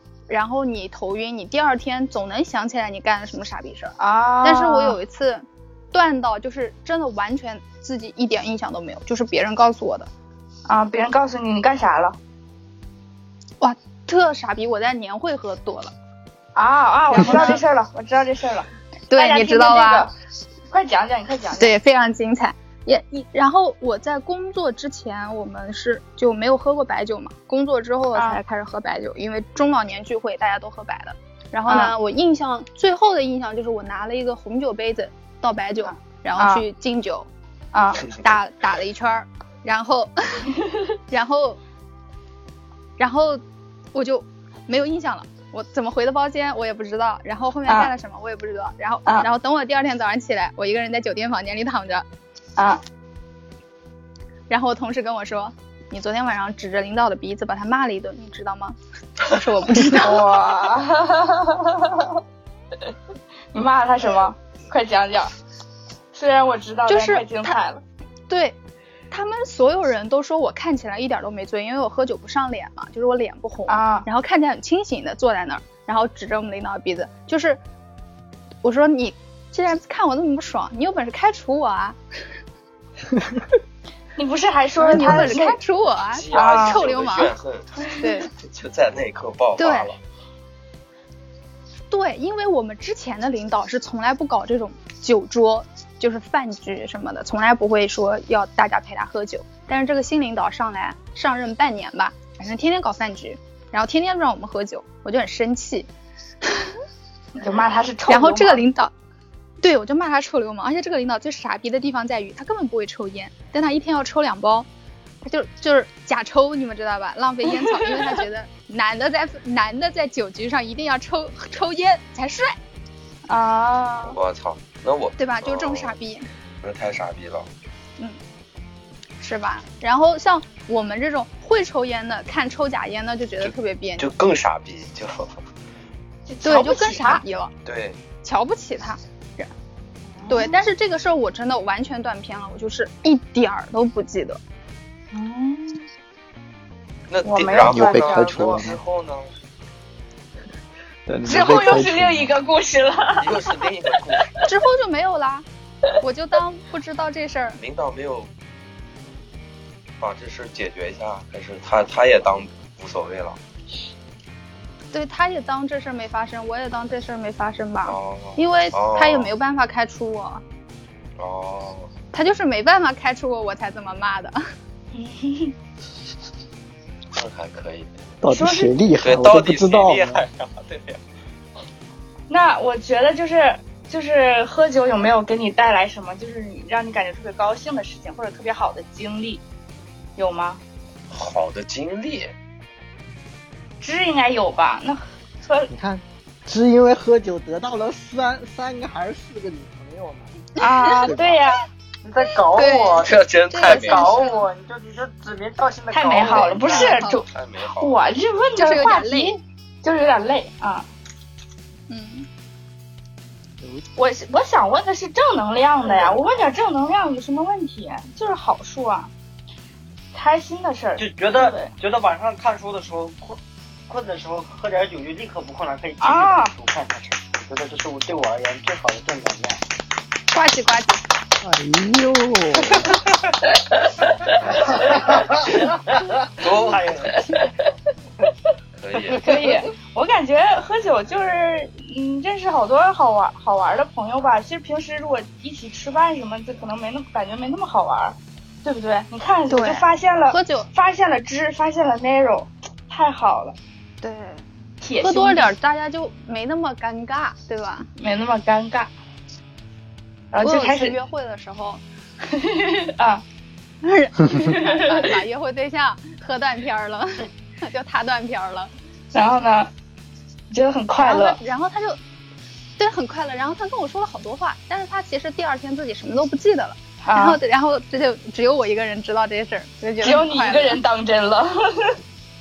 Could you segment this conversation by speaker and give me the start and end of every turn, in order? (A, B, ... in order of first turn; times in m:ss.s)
0:00.3-0:10.1 A
0:04.0-0:05.0 B
0:10.7-0:12.2 B
0:13.6-0:15.9 A
0:16.6-0:20.1 B
0:19.1-0:20.1 A
0:20.7-0:21.7 B
0:21.6-0:37.3 A
0:28.2-0:28.4 B
0:31.7-0:31.9 B
0:35.8-0:36.6 B
0:37.7-0:38.1 B
0:38.0-0:40.5 A
0:41.1-0:41.6 A
0:43.0-0:43.4 A
0:43.9-0:52.0 A
0:54.5-1:00.3 A
1:00.0-1:02.2 B
1:03.5-1:05.3 B
1:06.1-1:07.8 B
1:06.9-1:07.6 A
1:08.3-1:08.6 A
1:09.1-1:17.6 A
1:13.7-1:14.1 B
1:18.6-1:22.0 A
1:24.2-1:25.6 B
1:24.8-1:27.3 A
1:25.0-1:25.4 C
1:26.1-1:30.0 C
1:26.3-1:26.8 B
1:28.0-1:28.3 A
1:29.6-1:29.9 A
1:31.9-1:45.9 A
1:46.4-1:46.8 A
1:47.4-1:48.6 B
1:48.1-1:48.9 A
1:49.6-1:54.7 A
1:55.2-2:02.6 A
1:57.7-1:58.0 B
2:03.3-2:04.2 B
2:04.1-2:05.9 C
2:05.2-2:06.3 A
2:06.6-2:07.5 C
2:09.2-2:14.1 A
2:13.4-2:15.4 C
2:16.3-2:17.2 B
2:16.4-2:17.5 A
2:17.6-2:18.0 C
2:18.2-2:19.5 A
2:20.1-2:20.6 B
2:20.3-2:24.4 A
2:25.1-2:25.9 B
2:27.1-2:29.3 C
2:27.2-2:28.4 B
2:27.6-2:28.8 D
2:31.1-2:32.3 D
2:31.2-2:33.6 B
2:33.2-2:34.4 C
2:34.4-2:35.4 A
2:36.0-2:37.6 A
2:37.6-2:38.3 C
2:40.0-2:43.4 C
2:44.9-2:50.4 A
2:47.8-2:49.3 C
2:51.2-2:51.9 C
2:52.1-2:54.4 A
2:54.9-2:55.5 B
2:57.1-2:57.9 C
2:58.2-3:00.2 D
2:58.3-2:58.7 B
2:59.0-3:01.0 C
3:02.3-3:09.4 B
3:10.2-3:10.6 B
3:11.1-3:12.3 C
3:13.8-3:15.7 B
3:15.7-3:20.3 D
3:20.6-3:21.6 B
3:20.6-3:21.1 A
3:21.1-3:21.4 D
3:22.0-3:27.0 E
3:22.5-3:24.5 A
3:23.0-3:24.2 C
3:25.9-3:27.3 B
3:26.4-3:27.2 A
3:27.3-3:28.1 C
3:27.8-3:30.9 B
3:28.6-3:29.4 A
3:31.9-3:32.3 A
3:34.0-3:39.1 B
3:40.1-3:41.7 B
3:41.0-3:49.6 E
3:46.0-3:46.5 B
3:50.3-3:51.0 A
3:51.4-3:53.0 D
3:53.8-3:55.2 B
3:54.8-3:57.2 E
3:56.4-3:56.9 C
3:57.1-3:57.7 B
3:58.8-3:59.2 C
3:59.1-4:13.6 B
4:09.5-4:10.7 A
4:14.0-4:14.4 A
4:14.8-4:15.5 B
4:15.0-4:17.9 A
4:18.0-4:18.9 B
4:20.3-4:21.0 B
4:20.4-4:21.8 A
4:22.2-4:23.2 B
4:23.8-4:28.7 A
4:24.4-4:25.1 B
4:29.1-4:29.7 B
4:30.5-4:31.4 B
4:31.0-4:32.0 A
4:32.8-4:40.8 A
4:37.0-4:37.4 B
4:40.0-4:42.0 B